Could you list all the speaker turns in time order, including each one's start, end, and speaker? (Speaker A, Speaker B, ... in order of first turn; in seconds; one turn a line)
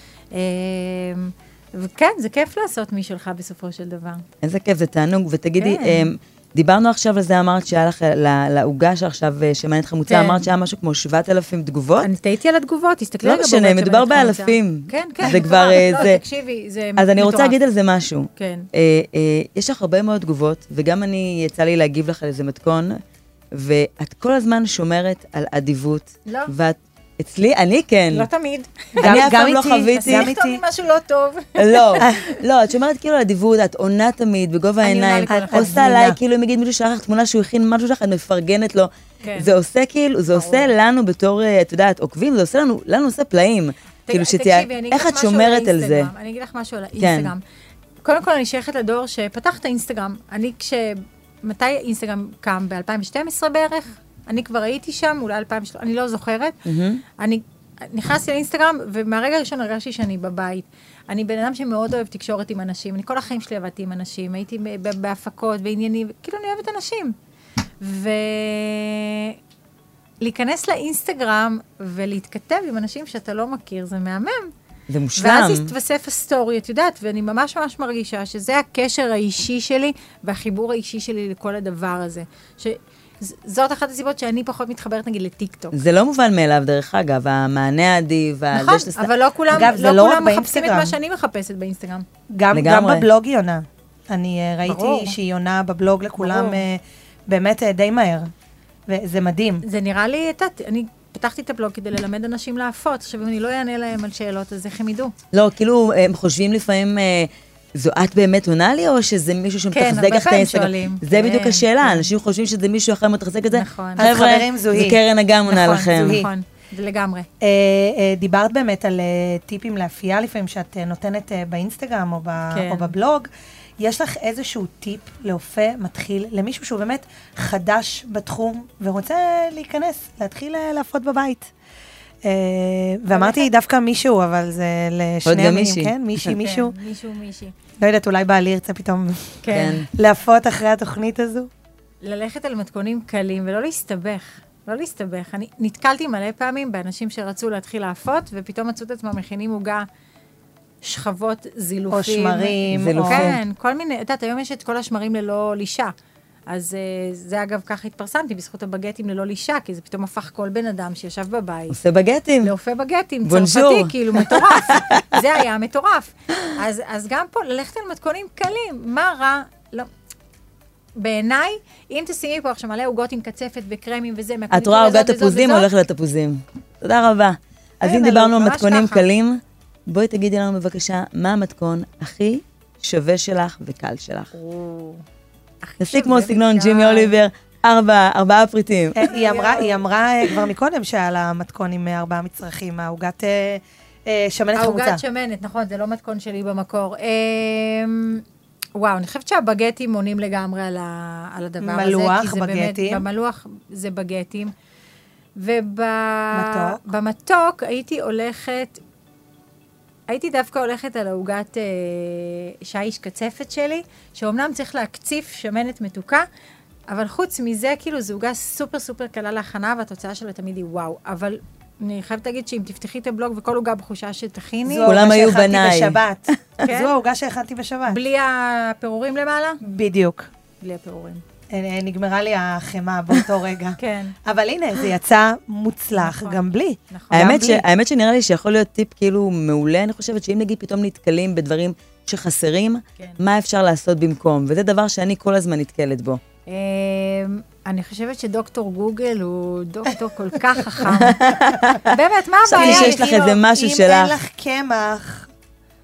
Speaker A: 0.3-4.2
Speaker B: 4.4-12.1
Speaker A: 5.6-6.1
Speaker A: 10.1-10.5
Speaker A: 12.0-17.6
Speaker B: 13.2-16.2
Speaker B: 17.0-23.0
Speaker A: 18.4-18.7
Speaker B: 23.5-28.3
Speaker A: 26.3-26.5
Speaker A: 28.1-29.3
Speaker C: 29.0-30.6
Speaker B: 29.0-30.3
Speaker A: 29.9-32.1
Speaker B: 31.6-46.1
Speaker A: 34.8-35.8
Speaker C: 35.3-36.2
Speaker A: 39.2-39.5
Speaker A: 40.3-40.7
Speaker A: 44.1-47.4
Speaker B: 47.0-47.3
Speaker A: 48.0-56.6
Speaker B: 56.6-57.0
Speaker A: 57.2-67.2
Speaker A: 67.8-69.4
Speaker A: 70.2-74.5
Speaker B: 74.9-75.7
Speaker A: 75.2-85.8
Speaker B: 85.7-89.1
Speaker A: 88.5-92.1
Speaker C: 89.5-91.0
Speaker C: 92.3-98.3
Speaker B: 92.5-93.1
Speaker A: 94.7-95.2
Speaker A: 96.2-96.6
Speaker C: 98.9-99.6
Speaker A: 99.6-105.1
Speaker B: 105.3-116.3
Speaker A: 109.7-112.1
Speaker A: 113.5-114.1
Speaker C: 114.0-115.0
Speaker A: 115.5-117.3
Speaker C: 115.7-116.3
Speaker C: 117.4-123.3
Speaker A: 122.5-122.9
Speaker C: 123.8-131.5
Speaker C: 132.2-136.8
Speaker A: 133.1-133.5
Speaker B: 135.3-135.9
Speaker A: 136.3-137.5
Speaker C: 137.8-141.5
Speaker A: 139.4-139.8
Speaker B: 139.5-139.9
Speaker A: 142.0-149.9
Speaker A: 150.8-155.9
Speaker C: 151.9-153.3
Speaker B: 152.7-153.4
Speaker A: 156.5-161.8
Speaker B: 161.7-162.5
Speaker A: 162.4-169.9
Speaker B: 163.2-165.2
Speaker A: 171.0-175.7
Speaker B: 174.5-184.3
Speaker A: 177.8-179.0
Speaker A: 184.3-185.0
Speaker A: 185.6-187.2
Speaker B: 185.8-189.0
Speaker C: 188.9-195.0
Speaker A: 189.1-189.8
Speaker A: 194.6-198.2
Speaker A: 198.8-204.5
Speaker C: 201.6-203.0
Speaker A: 205.4-208.8
Speaker C: 206.3-206.8
Speaker A: 210.1-216.2
Speaker A: 216.9-224.9
Speaker C: 224.7-228.0
Speaker B: 224.8-226.0
Speaker A: 226.6-226.9
Speaker A: 227.9-229.6
Speaker C: 229.6-230.3
Speaker A: 230.6-231.2
Speaker C: 231.5-237.6
Speaker A: 233.8-234.2
Speaker A: 236.0-237.5
Speaker B: 237.1-246.2
Speaker A: 246.5-251.3
Speaker B: 250.9-251.9
Speaker A: 251.8-253.1
Speaker B: 252.5-254.1
Speaker C: 252.5-255.3